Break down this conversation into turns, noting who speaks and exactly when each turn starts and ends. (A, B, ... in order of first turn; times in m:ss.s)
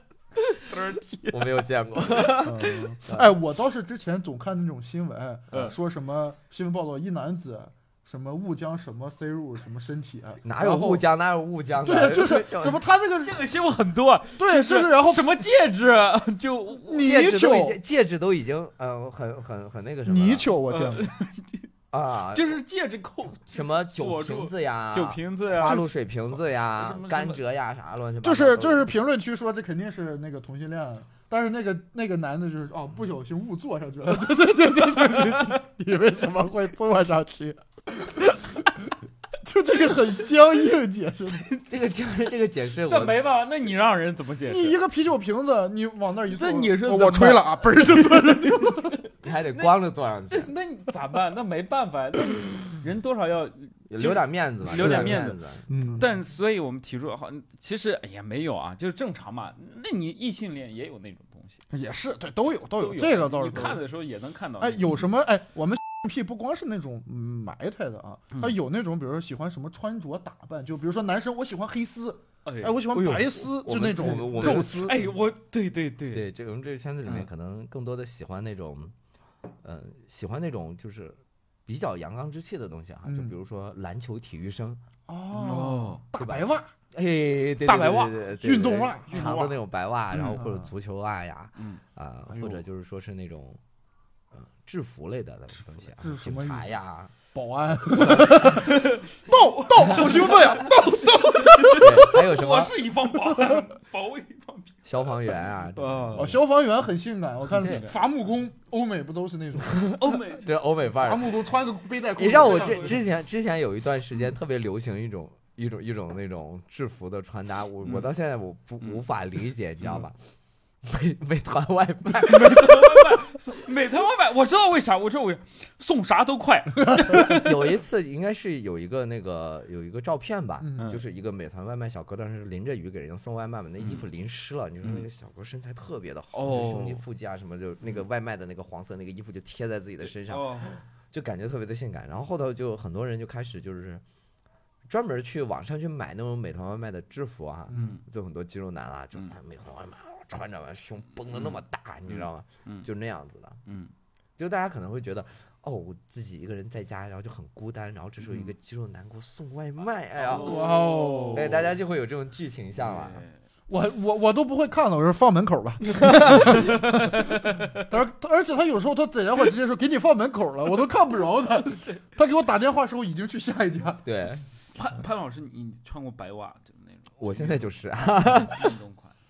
0:00.4-0:02.8 A
0:01.3-0:03.3 B
0:02.4-0:11.0 C
0:10.4-0:12.8 B
0:11.8-0:13.4 C
0:13.1-0:17.1 A
0:14.4-0:15.4 C
0:16.8-0:17.8 C
0:16.9-0:20.5 B
0:20.0-0:21.1 C
0:20.7-0:21.7 A
0:21.9-0:22.6 B
0:22.3-0:25.9 A
0:23.5-0:28.9 B
0:26.7-0:27.4 A
0:28.2-0:41.5 C
0:41.6-0:43.2 B
0:42.8-0:44.8 A
0:44.5-0:48.9 C
0:46.3-0:49.7 A
0:49.2-0:50.5 B
0:50.3-0:55.4 A
0:53.9-0:55.6 B
0:54.7-0:56.1 C
0:56.0-1:01.6 A
1:01.7-1:03.8 C
1:02.8-1:05.0 A
1:04.6-1:15.0 C
1:12.4-1:12.9 A
1:12.9-1:15.0 B
1:14.2-1:16.3 A
1:16.1-1:18.9 B
1:19.6-1:24.8 B
1:23.0-1:23.3 C
1:25.1-1:26.7 C
1:25.3-1:26.0 A
1:26.2-1:33.6 B
1:27.6-1:28.2 A
1:28.4-1:29.4 C
1:29.1-1:29.6 A
1:30.1-1:30.7 C
1:32.3-1:32.6 C
1:34.3-1:37.1 B
1:36.0-1:36.7 C
1:37.3-1:42.2 C
1:38.0-1:38.3 B
1:38.2-1:45.2 A
1:41.8-1:42.8 B
1:44.8-1:46.4 B
1:45.7-1:46.4 A
1:46.1-1:49.9 C
1:47.6-1:47.9 A
1:49.6-1:51.4 B
1:50.0-1:50.6 A
1:50.9-1:53.0 C
1:52.2-2:00.2 B
1:52.3-1:53.0 A
1:57.8-1:58.1 A
2:00.8-2:03.2 B
2:02.2-2:07.7 A
2:07.2-2:24.0 B
2:10.6-2:10.9 C
2:16.3-2:17.0 A
2:20.1-2:20.8 A
2:24.9-2:33.6 B
2:27.7-2:28.0 C
2:27.7-2:28.0 A
2:32.1-2:32.9 A
2:33.6-2:33.9 A
2:34.4-2:40.6 B
2:40.2-2:41.7 A
2:40.3-2:41.5 C
2:41.3-2:43.2 B
2:42.8-2:43.3 A
2:43.7-2:54.0 C
2:45.9-2:46.7 B
2:46.2-2:47.8 A
2:54.0-2:54.4 B
2:54.7-2:59.1 A
2:57.2-2:58.8 B